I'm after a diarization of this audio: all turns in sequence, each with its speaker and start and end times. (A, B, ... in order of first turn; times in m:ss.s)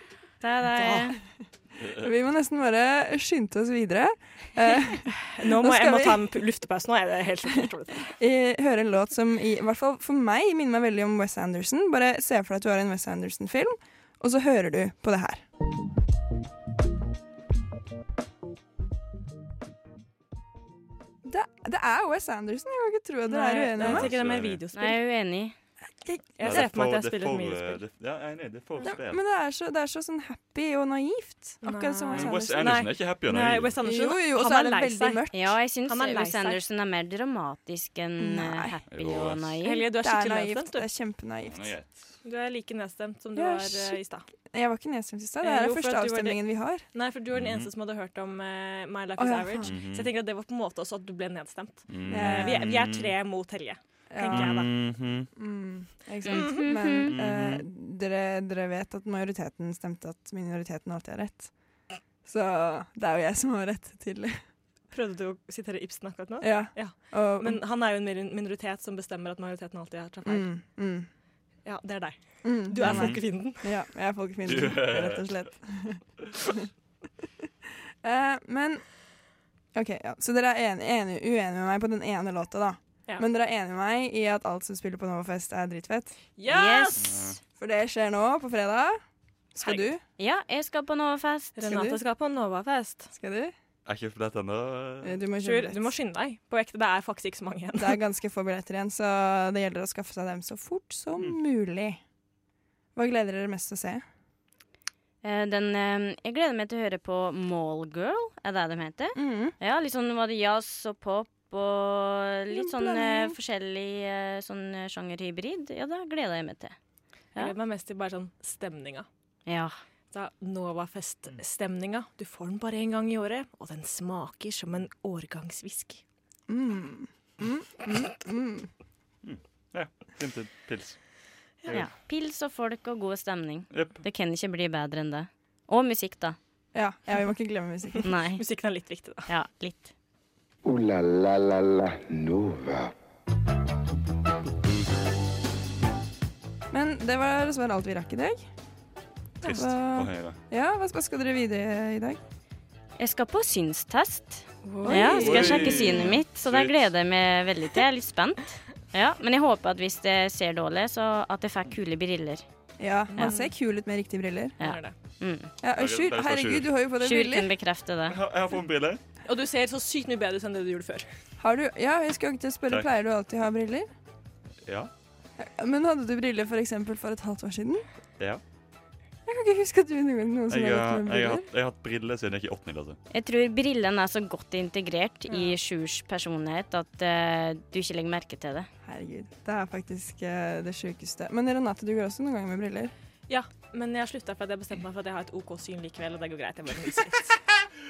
0:00.4-0:01.2 A
0:00.8-0:01.1 B
0:01.8-0:02.1 C
0:02.0-0:06.4 D
0:05.3-0:08.1 B
0:08.2-0:15.4 D
0:21.2-0:24.1 D
0:23.3-0:25.0 B
0:23.8-0:24.6 C
0:24.7-0:25.5 A
0:26.0-0:26.7 D
0:26.4-0:27.8 B
0:26.4-0:29.2 C
0:28.8-0:32.9 D
0:31.6-0:35.2 B
0:32.1-0:33.7 C
0:33.8-0:35.6 D
0:35.3-0:39.8 A
0:35.9-0:36.6 B
0:38.2-0:38.8 D
0:38.9-0:39.6 C
0:39.6-0:40.8 B
0:40.0-0:41.7 D
0:41.5-0:42.1 C
0:42.2-0:44.2 B
0:43.3-0:44.0 D
0:44.5-0:46.8 D
0:45.4-0:46.4 B
0:46.9-0:54.7 B
0:47.3-0:47.7 C
0:49.2-0:49.7 D
0:49.6-0:50.1 C
0:51.9-0:53.1 C
0:52.0-0:52.7 D
0:54.1-0:54.7 D
0:54.3-0:55.3 C
0:55.3-1:01.5 D
0:56.2-0:57.1 A
0:56.3-0:56.6 B
0:57.0-0:57.6 C
1:02.2-1:04.4 D
1:04.9-1:10.6 B
1:06.4-1:07.6 D
1:10.2-1:11.1 D
1:11.6-1:13.7 B
1:12.4-1:16.6 D
1:12.8-1:13.2 C
1:14.4-1:15.3 C
1:18.0-1:18.8 D
1:19.7-1:26.2 D
1:26.4-1:27.2 B
1:26.5-1:27.3 A
1:27.0-1:27.4 C
1:27.6-1:29.0 D
1:29.5-1:30.0 D
1:29.6-1:29.9 B
1:30.2-1:31.6 A
1:31.6-1:33.1 B
1:31.6-1:32.0 D
1:33.1-1:33.5 D
1:33.8-1:35.2 C
1:35.0-1:35.9 D
1:35.4-1:38.0 B
1:37.8-1:42.0 D
1:42.9-1:44.0 D
1:45.2-1:56.7 A
1:49.1-1:49.5 D
1:52.5-1:53.4 D
1:57.3-1:59.1 B
1:59.4-1:59.7 A
2:00.1-2:06.0 B
2:06.5-2:08.7 D
2:09.2-2:11.0 C
2:11.7-2:16.4 A
2:13.7-2:14.0 C
2:16.7-2:18.0 D
2:18.0-2:18.4 A
2:18.0-2:19.3 B
2:19.3-2:19.9 A
2:20.6-2:22.9 E
2:26.7-2:28.4 D
2:29.4-2:30.4 C
2:29.4-2:32.2 D
2:33.0-2:42.4 A
2:34.6-2:36.0 B
2:34.8-2:36.1 D
2:35.2-2:36.8 C
2:42.8-2:44.6 D
2:43.1-2:43.5 B
2:44.6-2:45.5 A
2:44.6-2:44.9 B
2:45.6-2:47.5 D
2:45.7-2:46.7 C
2:47.0-2:48.2 A
2:48.1-2:49.0 C
2:49.2-2:51.1 B
2:51.4-2:53.9 D
2:54.6-2:54.9 C
2:55.4-2:57.8 D
2:59.2-3:01.5 D
3:00.5-3:03.0 C
3:03.1-3:08.7 A
3:05.3-3:05.6 B
3:08.8-3:12.9 D
3:13.3-3:17.4 B